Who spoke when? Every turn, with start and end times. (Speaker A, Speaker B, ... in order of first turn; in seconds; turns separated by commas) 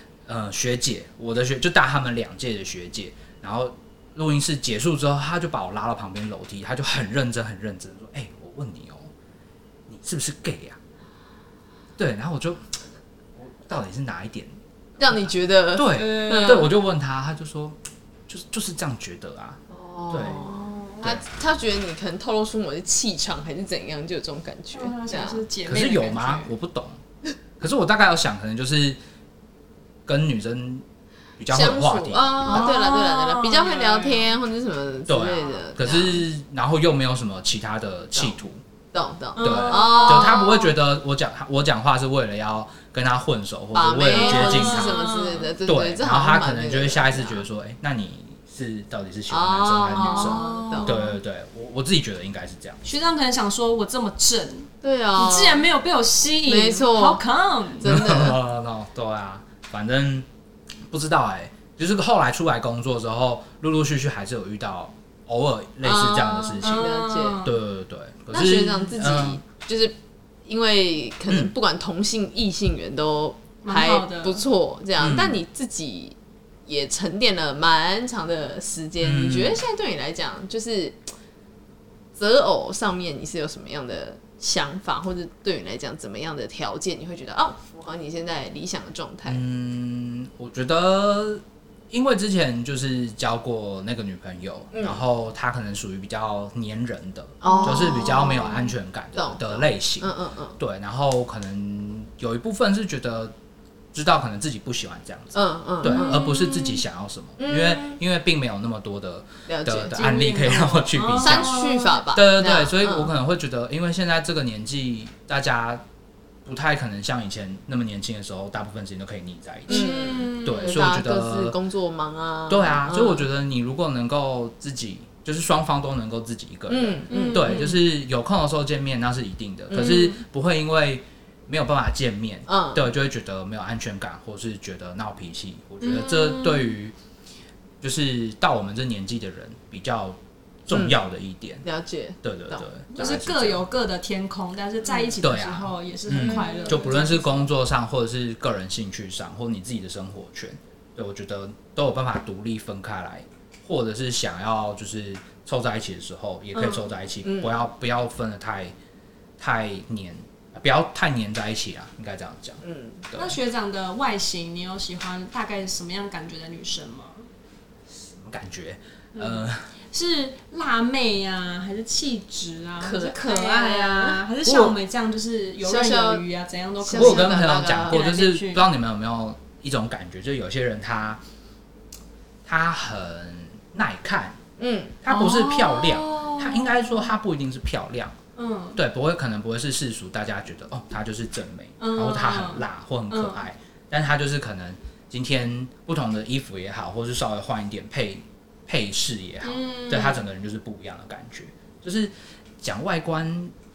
Speaker A: 0.2-9.1, Speaker A: 9.9-10.8, Speaker A: 12.0-12.6, Speaker A: 13.4-14.5, Speaker B: 15.0-16.7, Speaker A: 15.1-19.6, Speaker C: 15.9-16.7, Speaker B: 19.7-25.4, Speaker A: 20.1-20.4, Speaker C: 20.4-21.1, Speaker C: 24.7-26.5, Speaker A: 25.7-27.0, Speaker A: 27.6-29.0, Speaker A: 30.1-30.8, Speaker A: 31.4-32.7, Speaker B: 31.5-36.2, Speaker C: 32.4-34.3, Speaker A: 35.1-38.6, Speaker B: 38.9-40.7, Speaker C: 39.4-40.4, Speaker A: 39.4-45.0, Speaker B: 43.7-47.4, Speaker C: 44.1-45.5, Speaker A: 45.6-52.8, Speaker B: 49.3-51.0, Speaker C: 50.0-51.1, Speaker C: 52.8-57.9, Speaker B: 54.8-55.6, Speaker B: 56.5-57.2, Speaker B: 57.8-58.4, Speaker A: 57.8-60.3, Speaker A: 60.9-66.9, Speaker B: 65.8-67.5, Speaker C: 66.6-67.5, Speaker A: 67.4-69.4, Speaker B: 68.3-69.9, Speaker B: 70.5-81.1, Speaker A: 71.3-71.5, Speaker C: 73.6-74.4, Speaker A: 75.0-75.4, Speaker A: 79.0-79.6, Speaker B: 82.2-89.4, Speaker A: 89.3-103.3, Speaker B: 94.7-95.0, Speaker B: 97.4-100.6, Speaker C: 97.4-97.9, Speaker A: 103.9-111.5, Speaker B: 105.3-106.3, Speaker C: 105.8-106.8, Speaker B: 107.4-108.0, Speaker B: 109.5-110.0, Speaker C: 109.9-112.0, Speaker B: 111.2-113.1, Speaker A: 112.1-115.8, Speaker A: 116.4-119.9, Speaker C: 119.7-120.8, Speaker B: 119.7-123.2, Speaker A: 120.4-121.5, Speaker A: 122.5-136.9, Speaker B: 126.7-127.8, Speaker C: 127.1-127.7, Speaker B: 129.7-130.1, Speaker C: 129.8-130.1, Speaker B: 132.5-132.9, Speaker C: 135.8-136.7, Speaker A: 137.8-141.6, Speaker B: 140.7-141.0, Speaker B: 141.6-142.6, Speaker A: 142.2-143.6, Speaker C: 142.9-147.4, Speaker B: 144.9-145.2, Speaker A: 145.2-158.7, Speaker B: 146.1-147.0, Speaker C: 156.5-156.9, Speaker B: 157.2-157.6, Speaker A: 159.4-163.4, Speaker B: 162.6-163.0, Speaker C: 163.1-167.2, Speaker A: 167.9-169.7, Speaker C: 169.9-178.6, Speaker B: 172.8-174.2, Speaker A: 174.4-174.7, Speaker B: 175.6-176.2, Speaker B: 176.8-178.0, Speaker A: 176.9-181.2, Speaker A: 182.4-184.4, Speaker B: 184.6-185.1, Speaker A: 185.0-188.1, Speaker C: 185.1-185.8, Speaker B: 185.7-186.7, Speaker C: 188.3-188.8, Speaker A: 188.8-203.5, Speaker C: 191.8-193.4, Speaker C: 199.4-200.2